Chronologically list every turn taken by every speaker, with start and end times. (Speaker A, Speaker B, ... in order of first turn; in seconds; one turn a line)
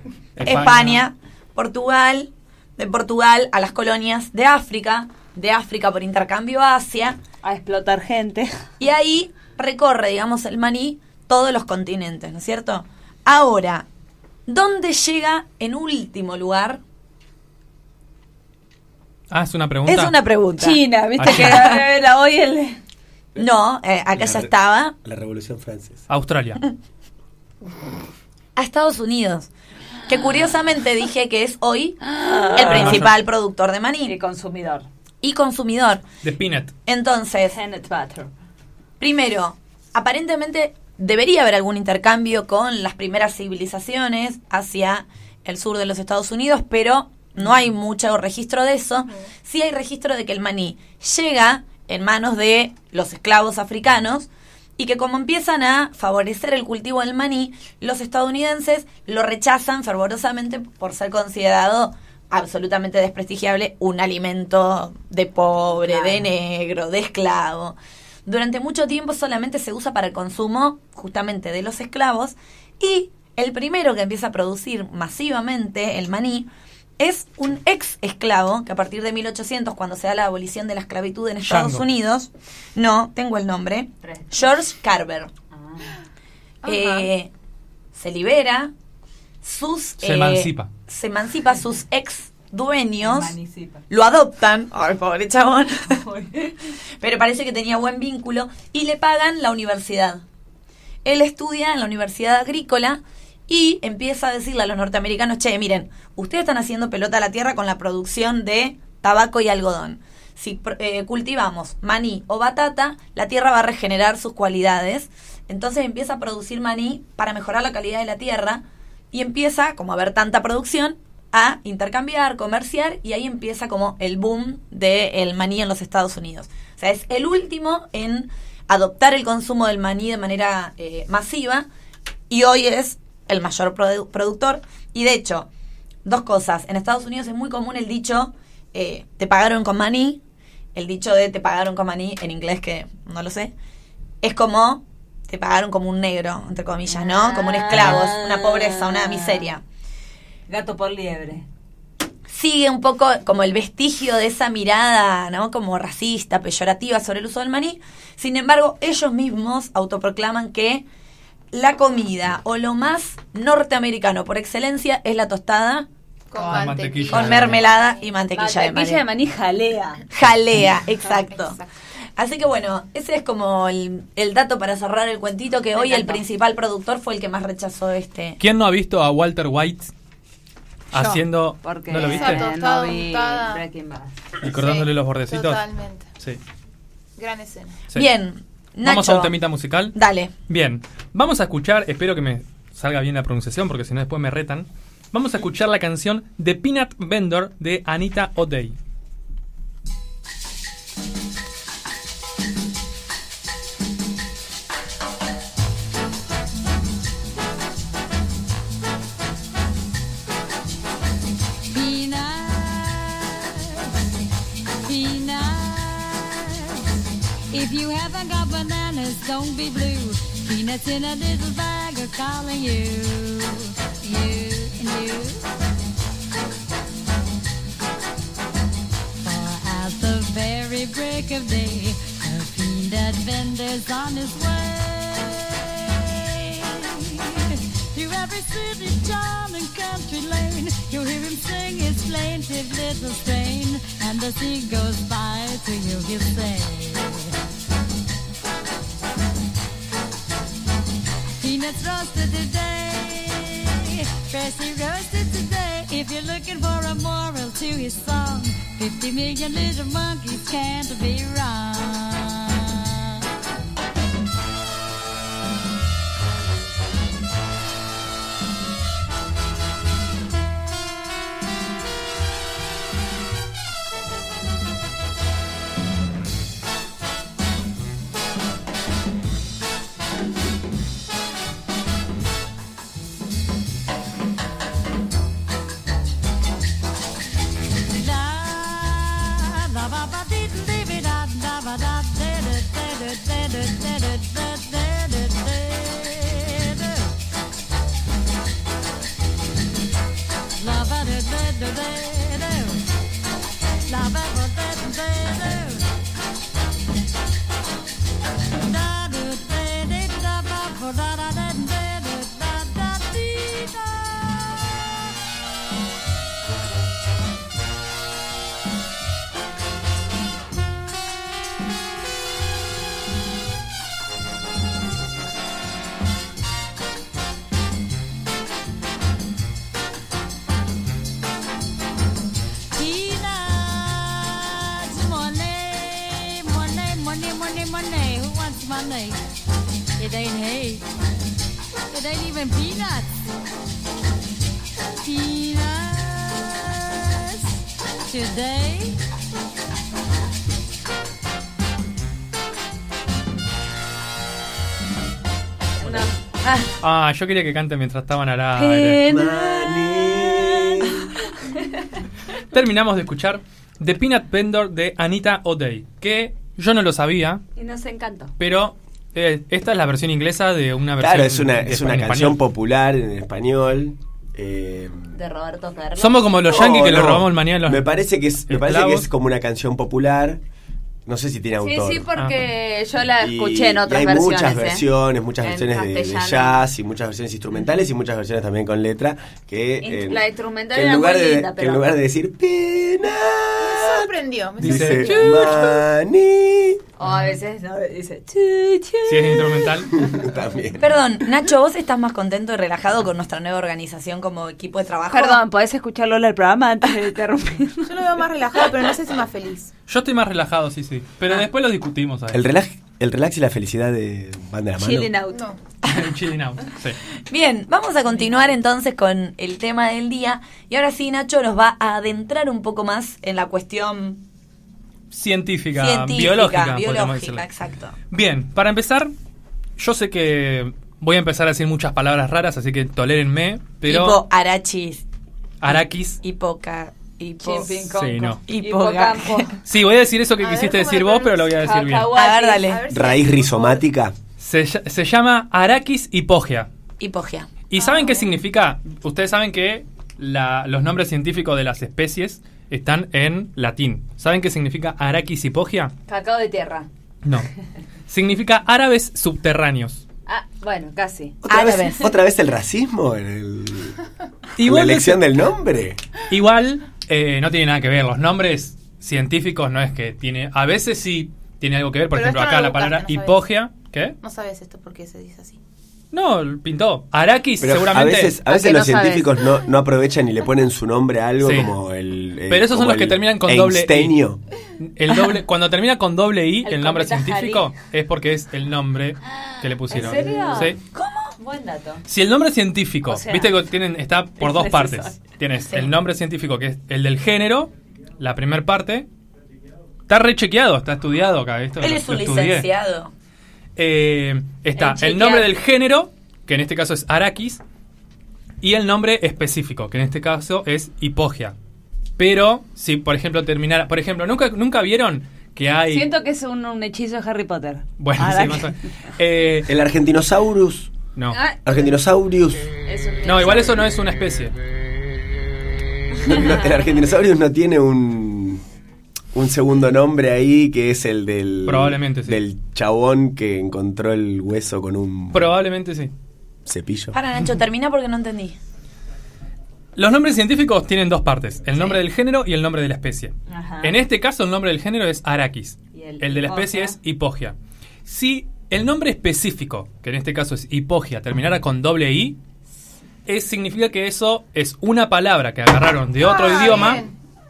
Speaker A: 0.4-1.0
Speaker B: 0.4-7.2
Speaker C: 7.4-8.5
Speaker B: 8.8-13.9
Speaker B: 14.5-16.8
Speaker A: 19.3-20.2
Speaker B: 19.9-21.8
Speaker C: 20.6-22.8
Speaker A: 21.2-21.7
Speaker B: 23.4-24.9
Speaker D: 24.1-24.5
Speaker D: 25.0-26.0
Speaker A: 26.1-26.6
Speaker B: 28.6-29.5
Speaker B: 30.1-32.0
Speaker C: 32.1-33.0
Speaker B: 32.5-34.2
Speaker A: 32.6-33.1
Speaker C: 34.1-34.9
Speaker B: 35.2-36.0
Speaker A: 36.2-36.7
Speaker B: 36.9-37.6
Speaker C: 37.5-38.3
Speaker B: 39.0-76.5
Speaker C: 65.8-66.3
Speaker B: 77.0-85.3
Speaker A: 81.4-81.8
Speaker C: 84.0-84.5
Speaker C: 85.5-86.0
Speaker E: 86.6-87.1
Speaker B: 86.7-87.3
Speaker B: 87.9-88.7
Speaker B: 89.4-93.3
Speaker A: 90.0-90.7
Speaker C: 93.0-93.8
Speaker B: 93.9-96.0
Speaker C: 95.9-96.5
Speaker B: 97.0-100.2
Speaker B: 101.0-131.7
Speaker B: 132.3-135.5
Speaker B: 136.1-140.2
Speaker B: 140.8-143.5
Speaker B: 144.2-149.6
Speaker C: 146.9-149.5
Speaker C: 150.5-151.5
Speaker B: 152.3-160.8
Speaker B: 161.5-165.9
Speaker E: 166.3-167.6
Speaker A: 166.4-167.7
Speaker B: 167.1-169.0
Speaker C: 168.3-170.0
Speaker B: 170.1-171.6
Speaker B: 172.2-178.4
Speaker C: 175.8-176.2
Speaker A: 178.4-179.9
Speaker A: 180.9-182.4
Speaker E: 180.9-181.2
Speaker C: 181.6-184.2
Speaker E: 182.0-183.6
Speaker A: 184.4-185.6
Speaker E: 184.4-186.1
Speaker E: 187.2-187.8
Speaker B: 187.9-189.3
Speaker A: 188.8-190.0
Speaker B: 189.9-190.3
Speaker A: 190.5-198.8
Speaker F: 211.7-213.9
Speaker F: 214.8-216.9
Speaker F: 217.5-225.4
Speaker F: 229.2-247.4
Speaker F: 251.4-263.2
Speaker F: 287.9-297.1
Speaker F: 300.6-302.8
Speaker F: 303.9-305.9
Speaker F: 308.6-314.9
Speaker F: 332.8-339.2
Speaker F: 340.0-340.9
Speaker F: 341.9-343.1
Speaker F: 345.0-347.5
Speaker F: 348.1-349.0
Speaker C: 355.8-356.1
Speaker A: 356.8-359.0
Speaker C: 358.6-361.1
Speaker D: 359.1-361.1
Speaker A: 362.5-367.4
Speaker C: 367.6-368.3
Speaker A: 368.4-372.4
Speaker D: 371.0-375.2
Speaker C: 375.1-376.3
Speaker A: 376.0-377.9
Speaker D: 376.5-380.4
Speaker A: 378.5-379.1
Speaker D: 381.1-382.1
Speaker C: 381.6-384.9
Speaker D: 383.2-396.8
Speaker C: 385.4-386.6
Speaker C: 389.8-392.0
Speaker E: 393.6-395.4
Speaker A: 394.6-395.7
Speaker C: 397.0-399.8
Speaker A: 399.1-399.9
Speaker D: 400.0-400.9
Speaker B: 400.8-405.4
Speaker C: 405.1-407.9
Speaker E: 407.9-409.7
Speaker A: 409.9-412.4
Speaker D: 412.3-415.1
Speaker C: 414.8-415.5
Speaker A: 415.8-417.0
Speaker B: 417.3-424.2
Speaker A: 425.1-427.5
Speaker B: 425.8-428.0
Speaker A: 428.1-429.1
Speaker A: 429.8-434.2
Speaker B: 433.9-435.1
Speaker A: 435.6-436.2
Speaker B: 436.2-437.9
Speaker C: 437.4-439.6
Speaker A: 437.9-438.4
Speaker B: 438.5-439.6
Speaker A: 439.6-442.1
Speaker C: 440.4-443.6
Speaker B: 442.1-442.9
Speaker D: 442.9-444.2
Speaker A: 444.4-446.7
Speaker B: 447.0-447.5
Speaker A: 447.7-455.9
Speaker E: 447.8-448.2
Speaker C: 456.1-456.9
Speaker A: 457.2-457.5
Speaker A: 458.1-460.0
Speaker C: 460.3-461.4
Speaker D: 461.4-464.0
Speaker B: 461.5-462.1
Speaker A: 464.6-465.2
Speaker D: 464.6-466.0
Speaker A: 466.3-474.2
Speaker E: 472.1-473.4
Speaker E: 474.2-475.6
Speaker A: 476.1-478.4
Speaker D: 477.6-484.4
Speaker C: 478.5-479.4
Speaker A: 481.4-481.7
Speaker A: 482.5-484.1
Speaker A: 484.8-490.8
Speaker C: 486.6-487.7
Speaker C: 489.3-490.8
Speaker B: 490.5-491.3
Speaker C: 491.4-492.0
Speaker A: 492.1-499.1
Speaker C: 493.1-493.6
Speaker C: 494.4-495.2
Speaker A: 500.1-502.7
Speaker B: 501.8-503.1
Speaker A: 503.8-507.6
Speaker C: 504.8-505.4
Speaker A: 508.6-511.6
Speaker A: 512.2-516.1
Speaker C: 515.9-518.8
Speaker A: 518.0-519.7
Speaker D: 519.7-520.9
Speaker C: 521.3-521.9
Speaker D: 521.6-522.7
Speaker C: 522.9-523.8
Speaker A: 523.2-524.5
Speaker D: 526.2-528.6
Speaker D: 529.3-535.5
Speaker A: 531.7-532.4
Speaker A: 535.3-536.1
Speaker D: 536.7-537.2
Speaker B: 537.1-538.6
Speaker A: 540.0-552.4
Speaker C: 543.5-544.0
Speaker C: 545.9-547.0
Speaker A: 553.3-557.0
Speaker E: 556.2-557.1